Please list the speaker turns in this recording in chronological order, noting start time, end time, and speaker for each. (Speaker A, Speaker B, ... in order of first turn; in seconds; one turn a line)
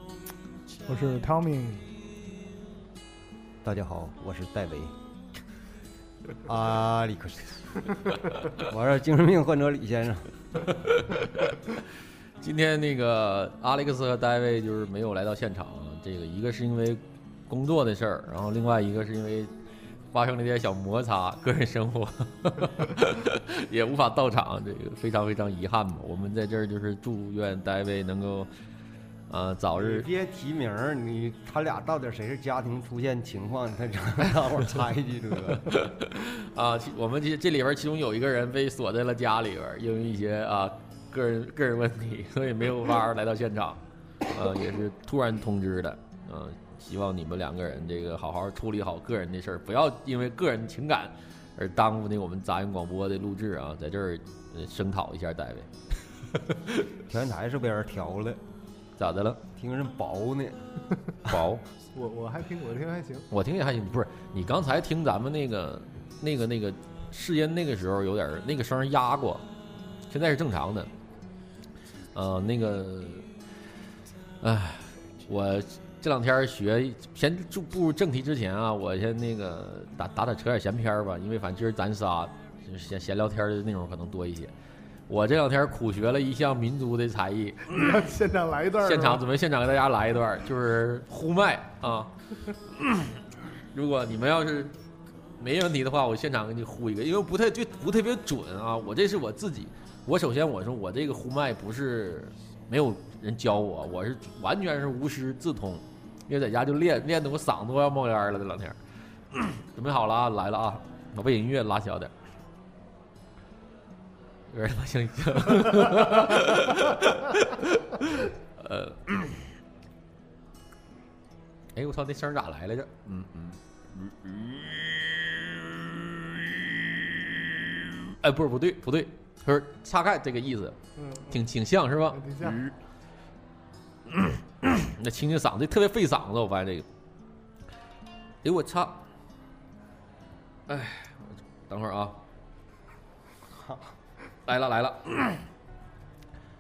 Speaker A: 0.8-1.9
Speaker B: 3.6-4.9
Speaker B: 6.5-10.3
Speaker C: 10.7-11.7
Speaker C: 12.4-19.5
Speaker C: 20.1-28.5
Speaker C: 29.3-30.1
Speaker B: 29.8-35.8
Speaker C: 35.5-55.7
Speaker C: 56.3-56.7
Speaker B: 57.1-58.4
Speaker C: 59.0-59.4
Speaker B: 59.6-60.6
Speaker C: 61.3-61.6
Speaker A: 61.9-63.3
Speaker C: 63.3-69.5
Speaker C: 70.1-70.9
Speaker C: 72.1-73.3
Speaker C: 74.4-84.5
Speaker C: 85.1-88.1
Speaker A: 87.7-89.2
Speaker C: 88.8-92.1
Speaker C: 92.7-93.2
Speaker C: 93.7-94.8
Speaker C: 95.4-112.1
Speaker C: 114.5-119.5
Speaker C: 121.7-132.7
Speaker A: 131.0-131.4
Speaker A: 132.1-132.6
Speaker C: 134.1-136.9
Speaker C: 138.4-139.0
Speaker C: 140.7-142.2
Speaker C: 144.4-145.5